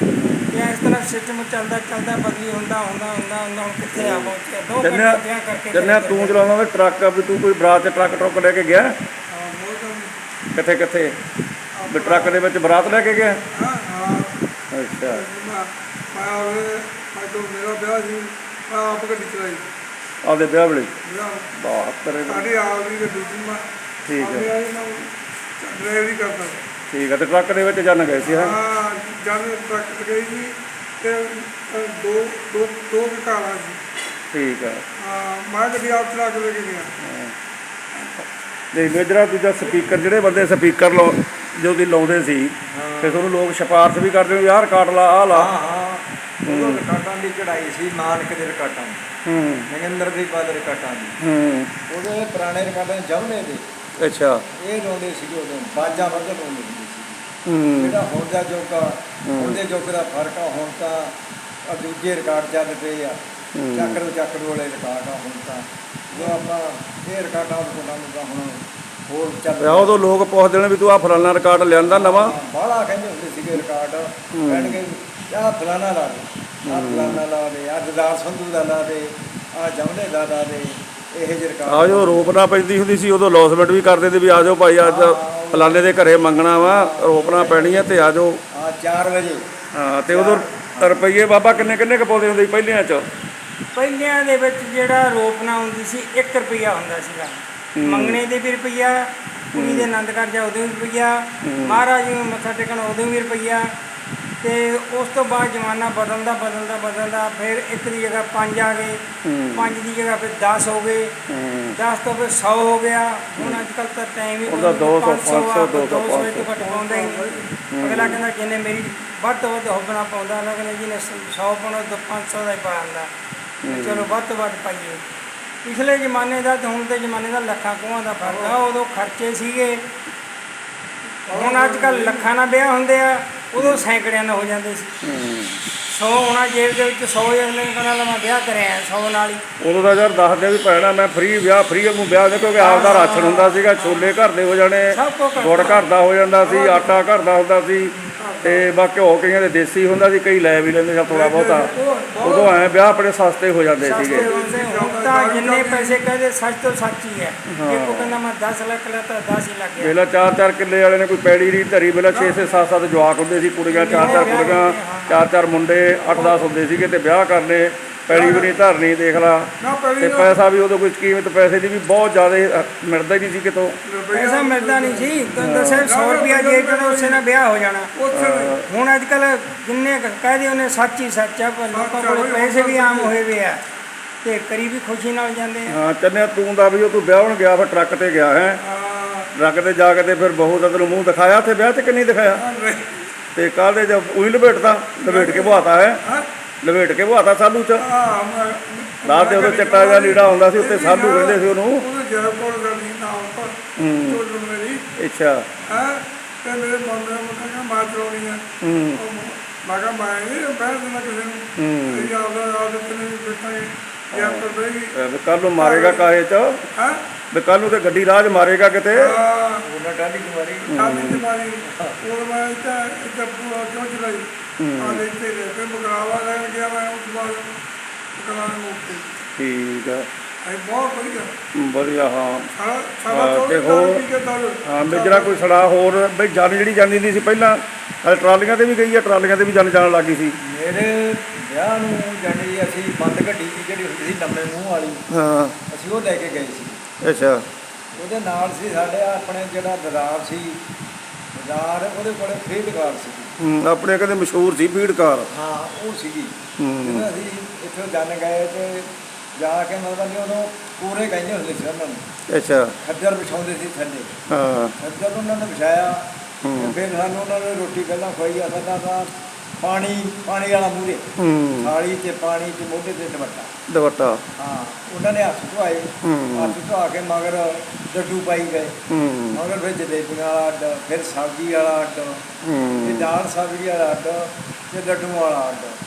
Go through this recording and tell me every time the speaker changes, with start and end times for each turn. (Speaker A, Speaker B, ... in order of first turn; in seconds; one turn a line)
Speaker A: 0.2-0.7
Speaker B: 0.5-6.4
Speaker A: 4.0-5.2
Speaker A: 5.7-9.0
Speaker C: 9.3-10.2
Speaker A: 10.5-11.2
Speaker C: 11.8-12.4
Speaker A: 11.9-13.4
Speaker C: 13.5-14.4
Speaker A: 14.7-15.2
Speaker C: 15.0-19.7
Speaker A: 20.2-20.9
Speaker C: 21.0-21.5
Speaker A: 21.6-22.5
Speaker C: 22.2-26.6
Speaker A: 24.1-24.5
Speaker A: 26.9-28.6
Speaker C: 28.2-33.8
Speaker A: 34.3-34.8
Speaker C: 35.0-36.9
Speaker A: 37.0-37.3
Speaker C: 38.0-38.2
Speaker A: 38.7-45.5
Speaker D: 42.7-43.2
Speaker D: 45.3-49.1
Speaker A: 46.5-46.8
Speaker A: 49.3-49.7
Speaker D: 49.7-51.2
Speaker A: 51.2-51.7
Speaker D: 51.9-53.6
Speaker A: 54.0-54.4
Speaker D: 54.5-57.2
Speaker A: 57.5-58.0
Speaker D: 57.8-61.1
Speaker A: 59.3-59.6
Speaker D: 61.7-63.2
Speaker A: 63.5-64.0
Speaker D: 63.7-70.0
Speaker A: 69.6-72.4
Speaker D: 71.9-82.3
Speaker A: 74.3-74.8
Speaker A: 76.7-77.2
Speaker A: 81.7-88.4
Speaker D: 84.8-86.1
Speaker D: 86.6-89.5
Speaker A: 89.7-93.1
Speaker D: 90.1-91.1
Speaker B: 93.7-103.8
Speaker A: 97.8-98.2
Speaker A: 99.5-99.9
Speaker A: 101.4-101.8
Speaker B: 104.4-111.2
Speaker A: 109.2-109.8
Speaker A: 111.3-111.8
Speaker B: 111.8-123.1
Speaker A: 114.5-116.5
Speaker C: 116.6-117.5
Speaker A: 117.7-118.2
Speaker A: 123.6-124.1
Speaker B: 123.7-125.0
Speaker B: 125.6-129.8
Speaker C: 128.2-128.6
Speaker C: 131.3-132.3
Speaker B: 131.3-134.9
Speaker A: 133.6-133.8
Speaker A: 135.0-135.6
Speaker B: 135.9-139.4
Speaker A: 139.6-154.3
Speaker B: 142.6-144.1
Speaker C: 142.7-143.0
Speaker B: 144.9-145.8
Speaker C: 146.4-147.0
Speaker C: 148.2-148.7
Speaker C: 151.1-152.7
Speaker B: 153.8-160.0
Speaker C: 153.9-156.0
Speaker A: 157.5-158.2
Speaker A: 159.8-173.8
Speaker C: 162.1-162.5
Speaker B: 163.7-165.2
Speaker C: 163.9-164.6
Speaker C: 166.1-166.5
Speaker C: 168.1-168.6
Speaker C: 169.6-170.4
Speaker C: 173.8-175.2
Speaker B: 174.1-177.9
Speaker A: 175.4-175.8
Speaker C: 175.8-177.2
Speaker C: 177.9-178.6
Speaker A: 178.1-178.7
Speaker B: 178.7-183.6
Speaker C: 181.7-183.1
Speaker B: 184.2-185.8
Speaker A: 185.7-188.6
Speaker C: 188.6-189.3
Speaker A: 189.4-192.4
Speaker C: 192.3-193.1
Speaker A: 193.3-196.0
Speaker C: 195.0-196.3
Speaker A: 196.6-197.8
Speaker C: 197.8-204.8
Speaker A: 199.0-201.9
Speaker A: 203.8-204.2
Speaker A: 205.0-205.5
Speaker C: 205.7-214.9
Speaker A: 208.6-209.0
Speaker A: 211.6-212.1
Speaker A: 214.1-216.6
Speaker C: 215.6-216.1
Speaker C: 216.8-217.0
Speaker A: 217.3-219.2
Speaker C: 218.9-219.7
Speaker D: 219.6-220.8
Speaker C: 220.7-227.6
Speaker A: 220.7-221.3
Speaker D: 221.7-222.0
Speaker A: 224.6-225.0
Speaker C: 228.2-229.2
Speaker A: 229.4-230.1
Speaker C: 230.4-231.3
Speaker A: 231.6-232.5
Speaker C: 232.5-235.4
Speaker A: 233.1-234.1
Speaker A: 234.7-240.4
Speaker D: 240.4-245.0
Speaker A: 245.1-245.6
Speaker D: 245.7-246.8
Speaker A: 247.0-247.4
Speaker D: 247.9-250.6
Speaker D: 251.3-253.3
Speaker A: 253.4-255.3
Speaker D: 255.3-262.0
Speaker A: 256.6-257.1
Speaker A: 262.3-262.7
Speaker D: 262.8-264.1
Speaker A: 264.3-264.7
Speaker D: 264.8-271.1
Speaker A: 266.4-266.8
Speaker A: 271.2-271.7
Speaker D: 271.6-273.5
Speaker A: 273.7-274.2
Speaker D: 274.4-278.8
Speaker A: 276.0-276.6
Speaker A: 278.9-279.4
Speaker D: 279.3-282.2
Speaker A: 282.4-283.1
Speaker D: 282.8-285.8